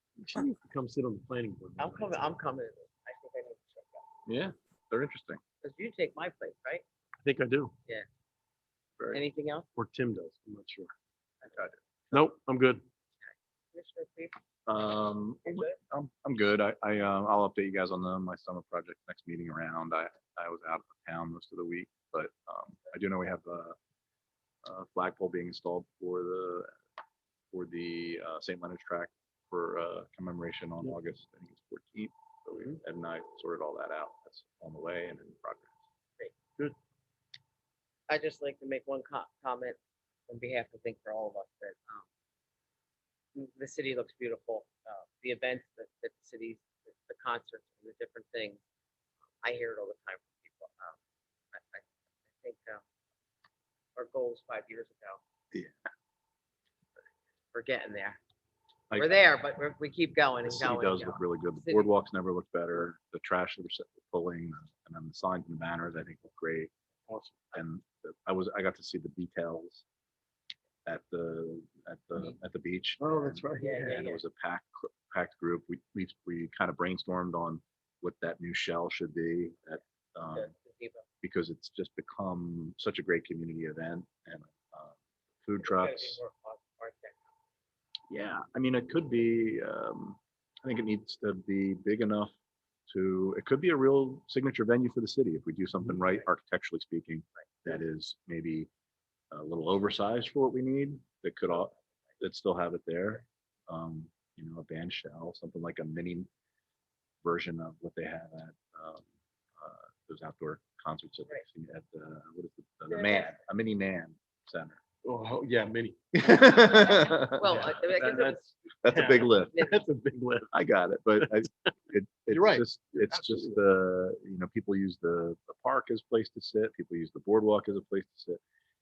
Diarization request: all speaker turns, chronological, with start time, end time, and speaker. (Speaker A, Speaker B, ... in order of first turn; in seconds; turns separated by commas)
Speaker A: 0.2-2.4, Speaker B: 1.8-4.0, Speaker C: 4.2-5.4, Speaker B: 5.6-6.8, Speaker A: 7.2-7.7, Speaker B: 9.1-9.7, Speaker A: 9.8-10.9, Speaker C: 11.5-11.8, Speaker A: 12.1-12.8, Speaker B: 13.3-14.4, Speaker C: 14.7-23.8, Speaker B: 15.4-15.8, Speaker C: 24.6-26.8, Speaker C: 27.5-35.7, Speaker B: 38.1-42.0, Speaker B: 43.3-48.6, Speaker B: 49.4-51.0, Speaker B: 51.5-52.8, Speaker B: 54.0-55.2, Speaker C: 55.5-55.9, Speaker B: 57.5-58.2, Speaker C: 58.9-59.2, Speaker B: 58.9-61.9, Speaker C: 60.4-66.7, Speaker A: 67.1-67.4, Speaker C: 67.5-69.8, Speaker C: 70.8-80.5, Speaker A: 73.0-74.0, Speaker B: 73.6-74.2, Speaker B: 80.3-81.0, Speaker C: 81.2-86.2, Speaker B: 85.6-87.2, Speaker C: 88.1-92.3, Speaker C: 92.9-98.7, Speaker C: 99.3-106.3, Speaker C: 107.2-109.0, Speaker C: 109.6-114.8, Speaker B: 112.9-113.3, Speaker A: 115.0-120.5, Speaker C: 116.1-117.5, Speaker B: 116.9-118.4, Speaker C: 118.8-119.7, Speaker B: 119.4-119.8, Speaker C: 120.5-128.4, Speaker A: 122.3-123.6